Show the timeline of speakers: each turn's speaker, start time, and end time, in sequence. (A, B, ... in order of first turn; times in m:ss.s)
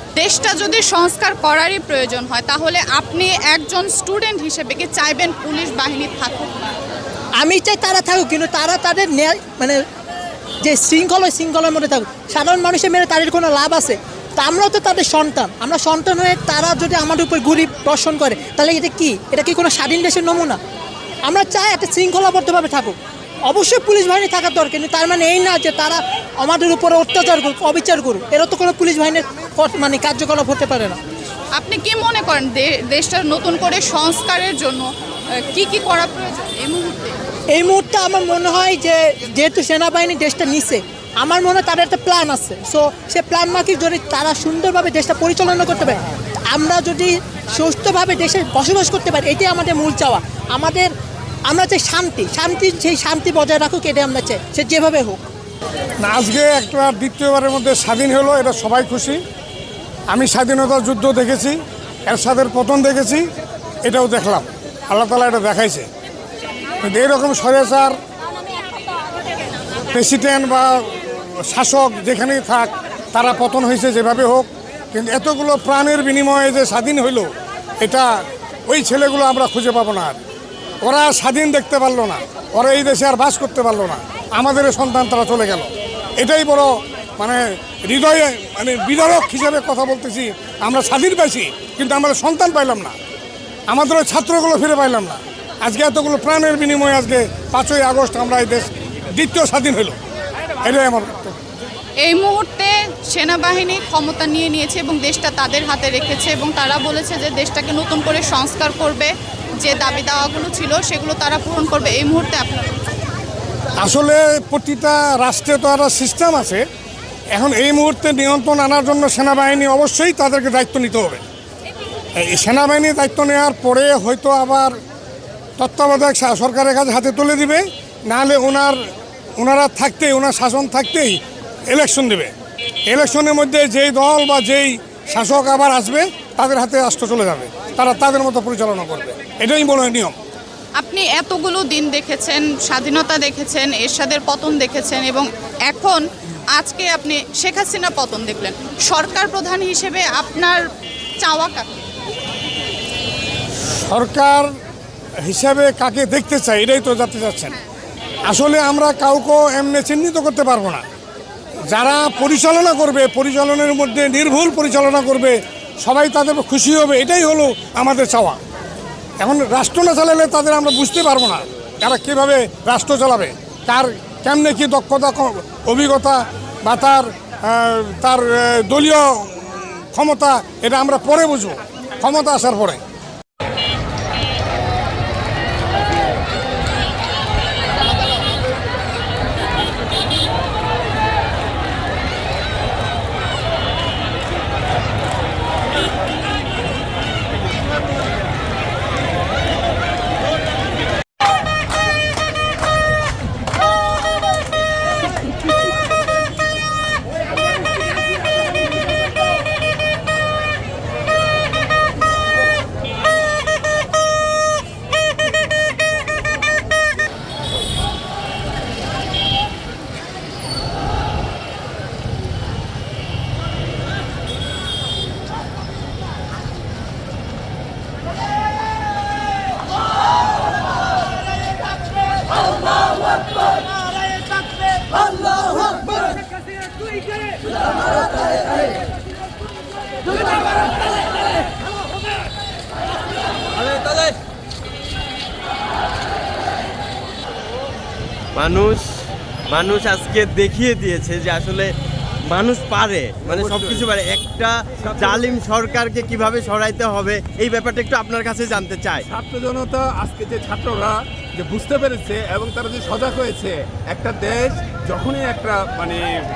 0:00.2-0:06.7 A
0:07.4-0:09.8 B
0:10.6-0:20.6 B
0:21.2-0:23.0 B
0:23.5-0:31.0 B
0:31.6-0:37.2 A
0:37.5-0:50.9 B
0:51.5-0:55.2 B
0:56.0-0:59.2 C
1:00.1-1:03.3 C
1:03.8-1:05.9 C
1:06.8-1:08.0 C
1:09.9-1:20.2 C
1:20.8-1:33.0 C
1:33.7-1:40.0 C
1:40.6-1:41.3 C
1:42.0-1:52.7 A
1:53.8-1:56.6 C
1:57.3-2:01.2 C
2:02.2-2:04.8 C
2:05.6-2:08.8 C
2:09.4-2:12.3 C
2:12.9-2:20.2 C
2:20.8-2:30.6 A
2:31.2-2:31.7 A
2:33.9-2:34.5 C
2:35.2-2:37.5 C
2:38.2-2:40.8 C
2:41.7-2:48.4 C
2:49.2-3:02.8 C
4:08.3-4:11.8 D
4:12.3-4:19.0 D
4:13.2-4:13.9 E
4:14.8-4:15.3 E
4:19.0-4:26.0 E